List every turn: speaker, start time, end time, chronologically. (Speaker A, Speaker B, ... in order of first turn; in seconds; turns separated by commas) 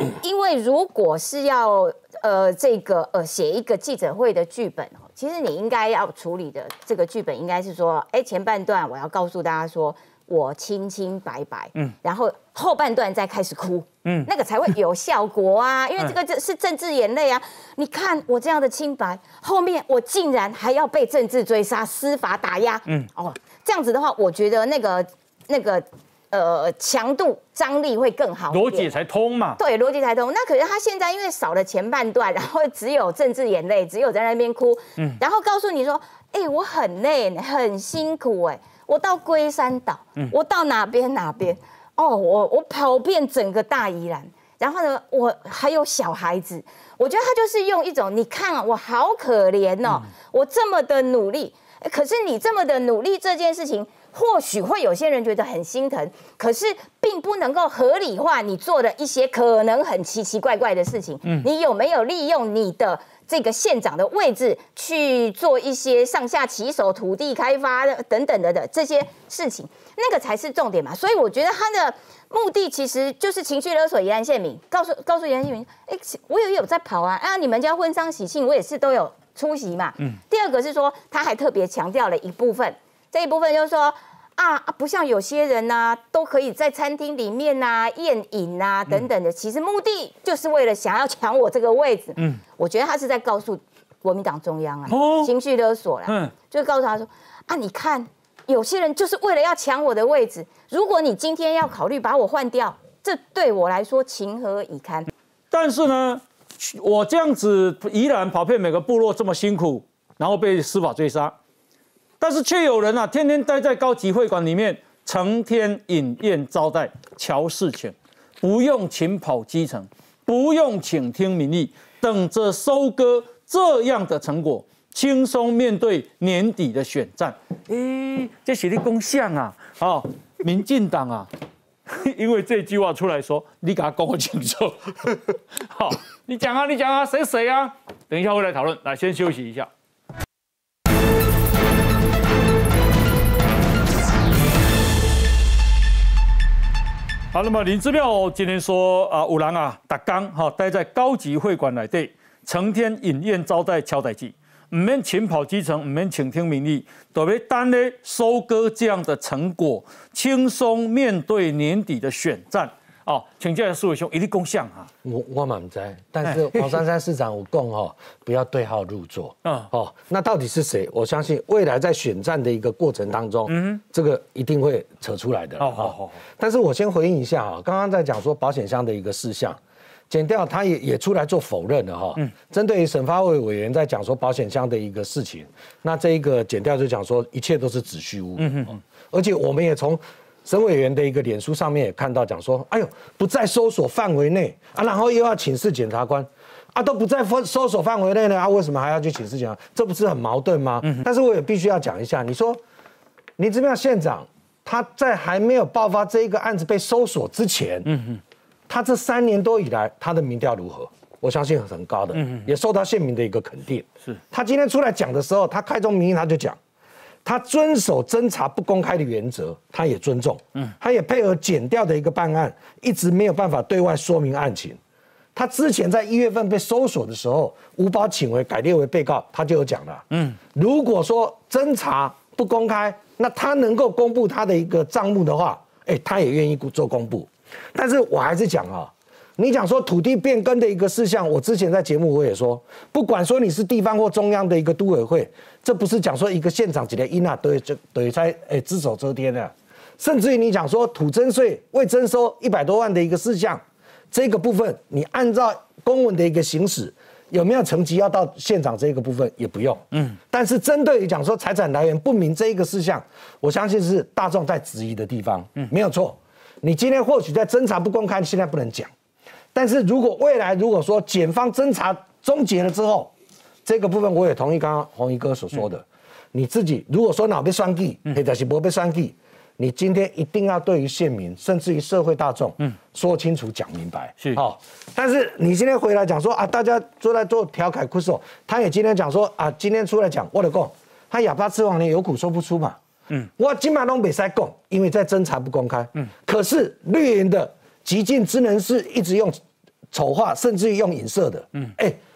Speaker A: 0.2-28.9, Speaker B: 28.5-29.6, Speaker A: 29.6-105.1, Speaker B: 94.9-95.3, Speaker B: 96.0-96.3, Speaker B: 105.5-111.3, Speaker B: 112.2-131.3, Speaker B: 131.9-139.7, Speaker B: 147.3-164.9, Speaker C: 165.0-179.6, Speaker B: 166.2-166.8, Speaker B: 169.4-169.7, Speaker B: 173.5-173.8, Speaker B: 175.6-176.2, Speaker C: 180.1-202.6, Speaker B: 188.4-188.8, Speaker C: 203.4-207.9, Speaker B: 207.8-208.2, Speaker C: 208.7-216.6, Speaker B: 212.1-212.5, Speaker C: 217.2-224.8, Speaker C: 225.3-268.9, Speaker B: 230.1-230.4, Speaker C: 269.5-273.1, Speaker C: 273.6-292.8, Speaker C: 293.4-299.4, Speaker C: 299.9-302.0